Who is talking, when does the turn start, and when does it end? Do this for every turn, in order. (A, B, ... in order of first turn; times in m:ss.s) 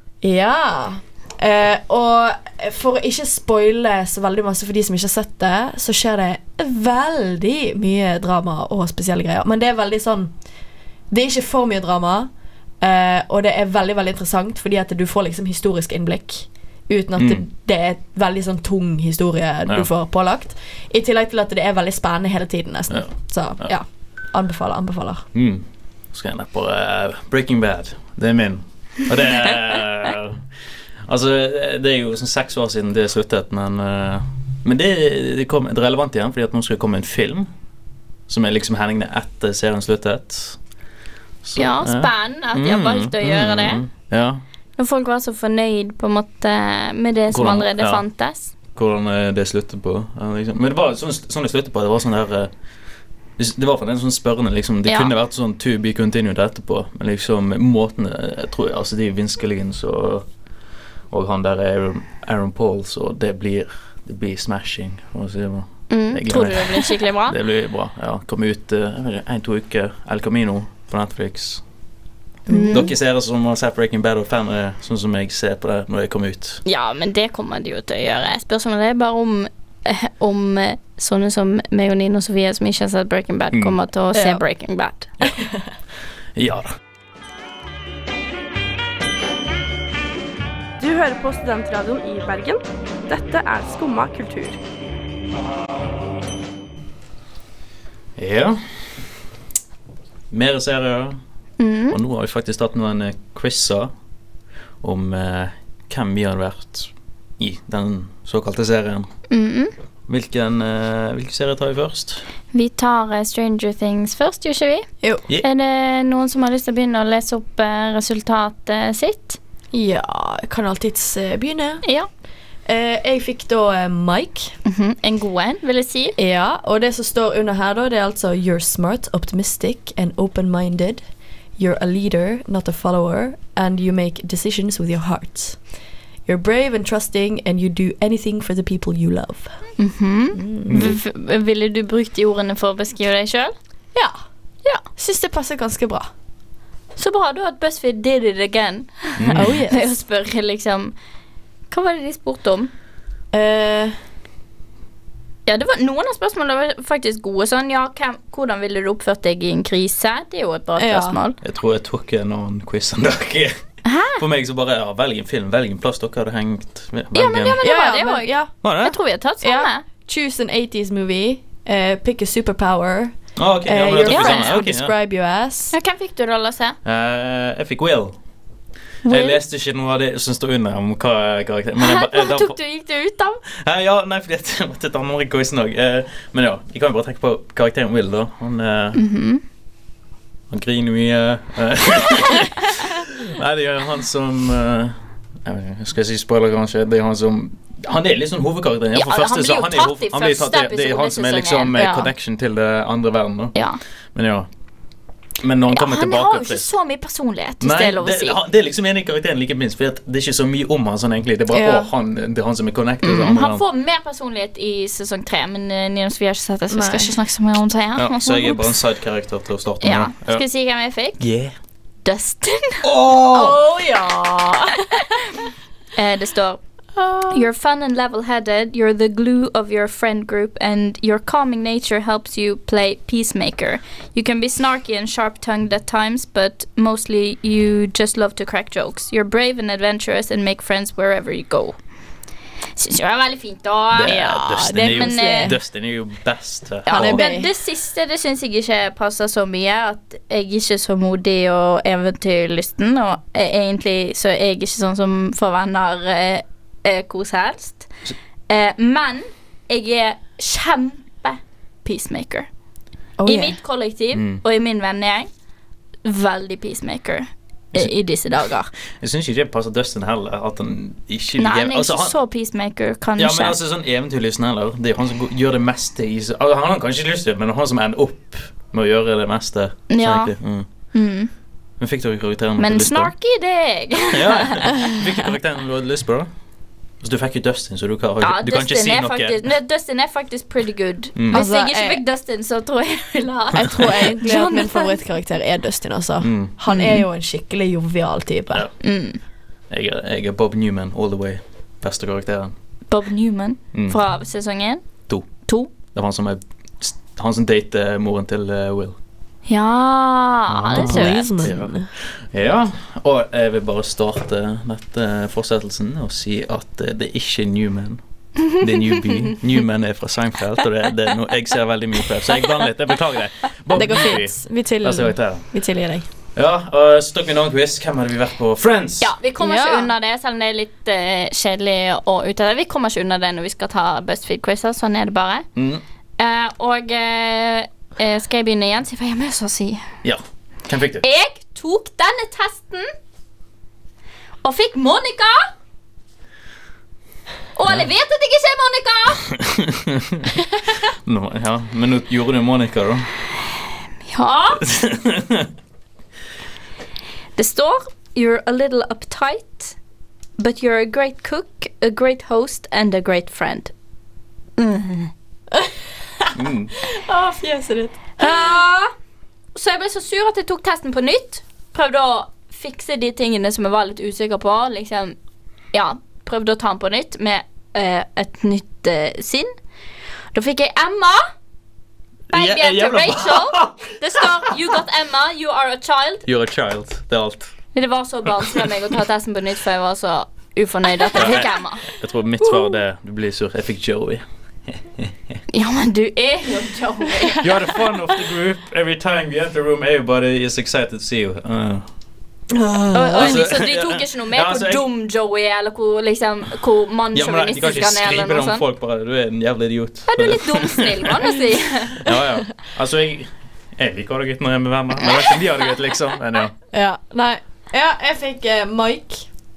0:00.2-0:10.3 A
0:11.1-0:25.3 A
0:17.2-0:17.4 B
0:22.9-0:23.7 B
0:25.3-0:30.4 B
0:31.1-0:37.5 B
0:38.3-0:40.6 B
0:41.4-0:44.4 B
0:41.6-0:43.8 C
0:44.8-0:48.5 C
0:47.3-0:48.0 B
0:48.7-0:52.5 B
0:53.4-1:00.3 B
0:54.9-0:55.1 C
1:01.1-1:11.6 B
1:05.9-1:07.4 C
1:12.5-1:12.9 A
1:12.5-1:12.9 C
1:12.7-1:16.6 B
1:16.6-1:25.1 C
1:23.5-1:23.8 B
1:24.1-1:24.4 A
1:26.4-1:26.7 B
1:30.9-1:32.6 D
1:33.1-1:34.4 D
1:38.2-1:38.6 B
1:40.3-1:41.2 B
1:41.6-1:42.0 C
1:41.9-1:43.9 B
1:44.8-1:49.1 B
1:49.3-1:49.7 C
1:50.1-1:52.2 B
1:52.5-1:54.9 C
1:55.4-1:59.4 C
1:59.7-2:01.8 A
2:02.7-2:04.5 A
2:04.6-2:06.2 C
2:06.2-2:11.0 A
2:11.6-2:15.6 A
2:16.3-2:19.5 A
2:19.8-2:23.6 C
2:20.4-2:20.9 A
2:20.7-2:21.0 B
2:25.0-2:26.1 A
2:27.0-2:30.9 C
2:29.2-2:29.6 B
2:29.4-2:29.9 A
2:31.7-2:32.7 C
2:33.3-2:34.0 A
2:35.5-2:41.4 C
2:40.8-2:41.2 A
2:41.4-2:43.5 B
2:43.8-2:44.2 C
2:44.2-2:47.6 B
2:47.1-2:49.8 C
2:47.6-2:48.5 A
2:48.6-2:49.0 B
2:49.4-2:55.7 A
2:53.4-2:54.9 B
2:54.0-2:54.6 C
2:55.7-2:56.8 C
2:56.8-2:58.2 B
2:59.1-3:02.6 B
2:59.1-2:59.3 A
3:01.8-3:03.4 C
3:03.6-3:09.0 B
3:09.0-3:09.4 C
3:10.5-3:23.6 B
3:19.0-3:22.1 C
3:23.6-3:23.8 C
3:24.2-3:24.5 B
3:25.4-3:26.7 B
3:25.7-3:28.4 C
3:27.6-3:33.6 B
3:31.5-3:31.9 A
3:33.0-3:38.7 C
3:36.7-3:37.2 A
3:38.0-3:40.4 B
3:39.8-3:41.2 C
3:41.2-3:41.5 B
3:42.0-3:42.8 C
3:42.8-3:43.6 B
3:43.3-3:44.8 A
3:46.0-3:46.6 C
3:47.0-3:47.4 A
3:47.3-4:01.8 C
4:02.8-4:05.5 C
4:03.9-4:07.2 B
4:04.1-4:05.6 A
4:06.9-4:07.5 A
4:06.9-4:17.9 C
4:18.5-4:22.5 C
4:23.2-4:23.6 A
4:23.3-4:25.3 C
4:24.1-4:24.4 B
4:26.0-4:28.7 C
4:29.0-4:32.1 B
4:31.4-4:33.6 C
4:33.2-4:40.7 B
4:39.9-4:40.4 C
4:40.9-4:41.3 C
4:41.8-4:43.1 B
4:42.6-4:44.8 C
4:44.1-4:46.3 B
4:47.0-4:49.4 B
4:48.2-4:55.0 C
4:51.2-4:51.4 B
4:51.3-4:52.0 A
4:53.5-4:58.7 A
4:56.2-4:56.5 B
4:56.7-4:57.0 C
4:58.8-4:59.2 C
4:59.7-5:02.5 B
5:02.9-5:04.8 C
5:03.7-5:04.0 B
5:05.5-5:05.7 C
5:05.8-5:09.0 B
5:09.5-5:11.4 C
5:10.5-5:11.7 B
5:10.7-5:11.9 A
5:12.3-5:25.5 B
5:18.5-5:19.2 C
5:23.7-5:26.1 A
5:26.4-5:29.1 B
5:29.0-5:35.5 C
5:29.4-5:29.9 A
5:35.6-5:35.8 B
5:36.2-5:39.9 C
5:40.0-5:41.1 B
5:41.0-5:42.9 C
5:44.4-5:45.5 C
5:47.6-5:49.3 C
5:49.4-5:50.3 B
5:51.0-5:53.1 B
5:54.1-5:54.6 C
5:54.6-5:55.5 B
5:57.4-5:59.8 C
6:00.4-6:03.7 C
6:04.6-6:05.1 C
6:05.5-6:08.8 A
6:06.4-6:06.7 B
6:08.2-6:08.8 C
6:09.6-6:15.2 C
6:15.7-6:19.5 C
6:20.3-6:21.2 C
6:22.3-6:23.9 B
6:22.3-6:26.2 C
6:26.3-6:27.5 B
6:27.7-6:31.8 C
6:28.4-6:28.7 B
6:31.2-6:35.1 B
6:32.4-6:32.8 A
6:35.5-6:37.4 C
6:37.4-6:41.9 B
6:42.5-6:43.4 A
6:42.9-6:48.6 C
6:43.2-6:44.8 B
6:47.2-6:51.3 B
6:50.1-6:52.1 C
6:52.0-6:56.5 B
6:56.7-6:59.3 A